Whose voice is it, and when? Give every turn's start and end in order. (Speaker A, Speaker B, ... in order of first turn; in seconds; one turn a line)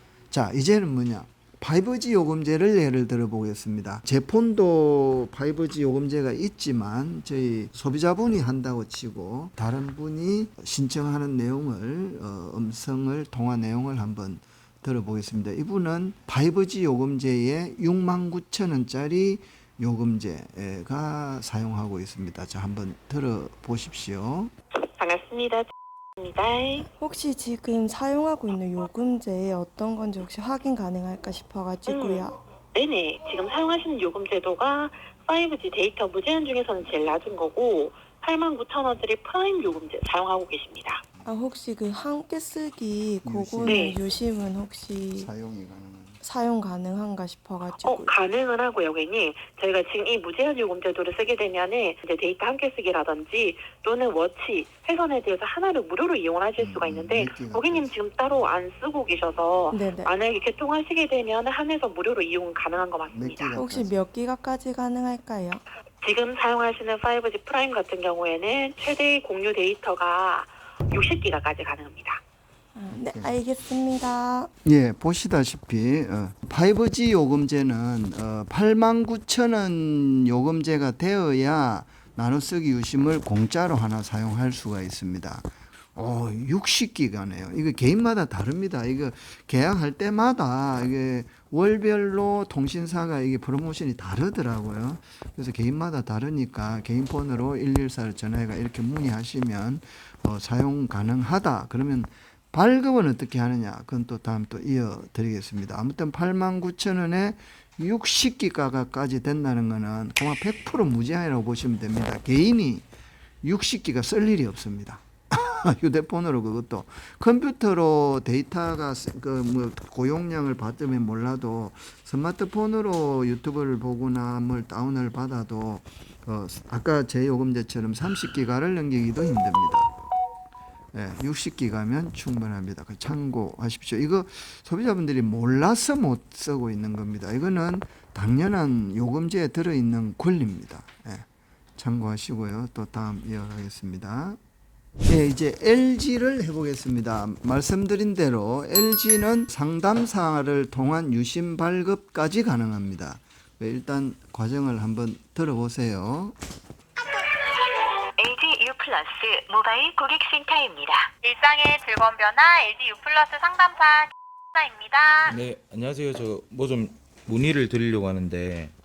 Speaker A: 0.3-24.5
Speaker B: 24.8-26.9
Speaker C: 27.0-32.4
Speaker B: 31.9-41.0
Speaker C: 41.2-45.3
Speaker A: 43.2-43.9
Speaker B: 43.6-44.0
Speaker A: 45.1-46.2
Speaker C: 46.2-48.1
Speaker B: 47.8-63.6
Speaker A: 56.6-57.9
Speaker C: 59.7-60.1
Speaker A: 63.1-64.0
Speaker C: 63.5-65.6
Speaker B: 66.0-72.2
Speaker C: 72.7-74.5
Speaker A: 73.1-73.4
Speaker A: 74.6-112.8
Speaker A: 113.4-129.9
Speaker A: 130.9-141.3
Speaker A: 141.8-144.4
Speaker A: 145.1-156.3
Speaker D: 158.2-161.1
Speaker E: 161.2-165.4
Speaker F: 165.2-168.7